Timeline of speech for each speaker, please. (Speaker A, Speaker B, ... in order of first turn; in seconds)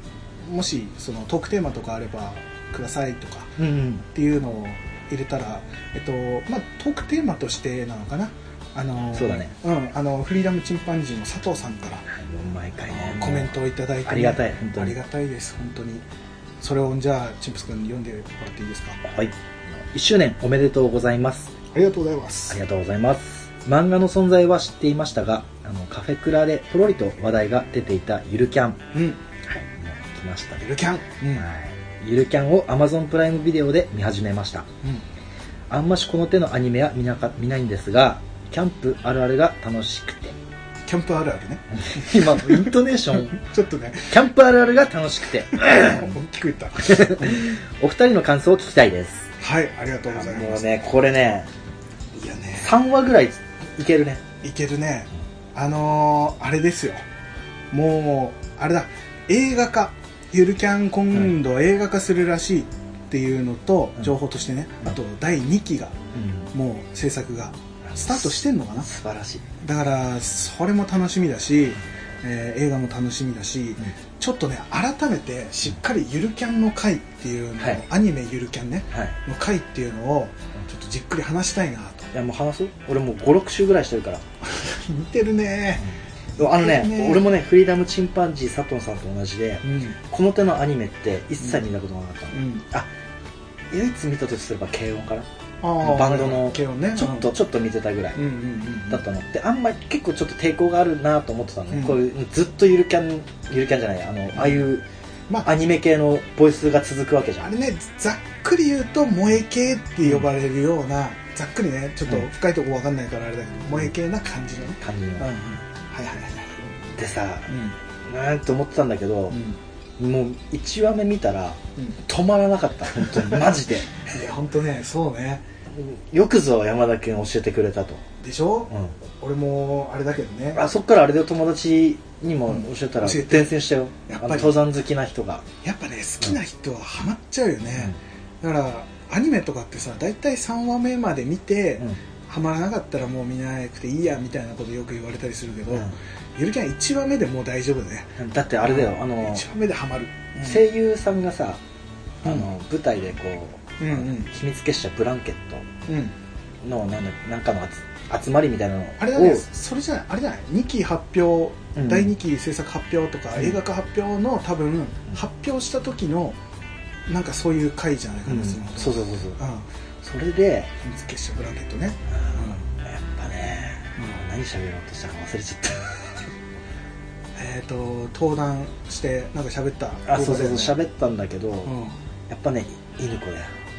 Speaker A: 0.4-12.1, 12.9-16.0, 16.6-19.0, 21.7-22.6, 28.9-29.2, 30.6-31.5, 40.9-42.7, 43.3-44.1, 45.5-47.4, 49.4-50.7, 52.1-52.7, 54.4-57.0, 57.7-66.0, 66.5-68.9, 69.6-82.1, 84.6-85.8, 86.4-87.2, 89.6-90.0, 92.3-92.6, 95.6-97.3, 98.2-99.0, 101.7-102.0, 104.3-104.6, 107.4-116.5, 117.5-117.8, 119.3-119.6, 123.1-123.5, 124.0-125.4, 128.2-130.6, 132.5-133.5, 134.1-134.6, 135.6-150.6, 153.8-154.3, 155.9-156.1, 159.0-166.4, 167.1-169.7, 170.8-172.6, 177.3-180.8, 181.7-181.9
Speaker B: 3.6-4.0, 9.1-9.5, 12.1-14.9, 19.0-21.5, 22.5-28.8, 29.4-30.7, 31.3-34.7, 35.7-40.4, 41.8-43.4, 44.1-46.1, 46.8-49.3, 50.1-51.5, 52.6-54.2, 66.1-66.5, 67.8-69.4, 82.1-84.2, 86.4-92.9, 93.7-95.3, 95.8-98.2, 98.9-104.8, 105.4-107.5, 114.8-115.3, 116.8-119.4, 120.0-124.0, 125.7-128.0, 130.5-135.4, 148.2-149.4, 150.4-151.6, 152.2-155.7, 156.6-159.4, 161.8-162.1, 168.3-169.4, 170.0-170.7, 172.1-176.3, 180.1-181.8, 182.3-183.5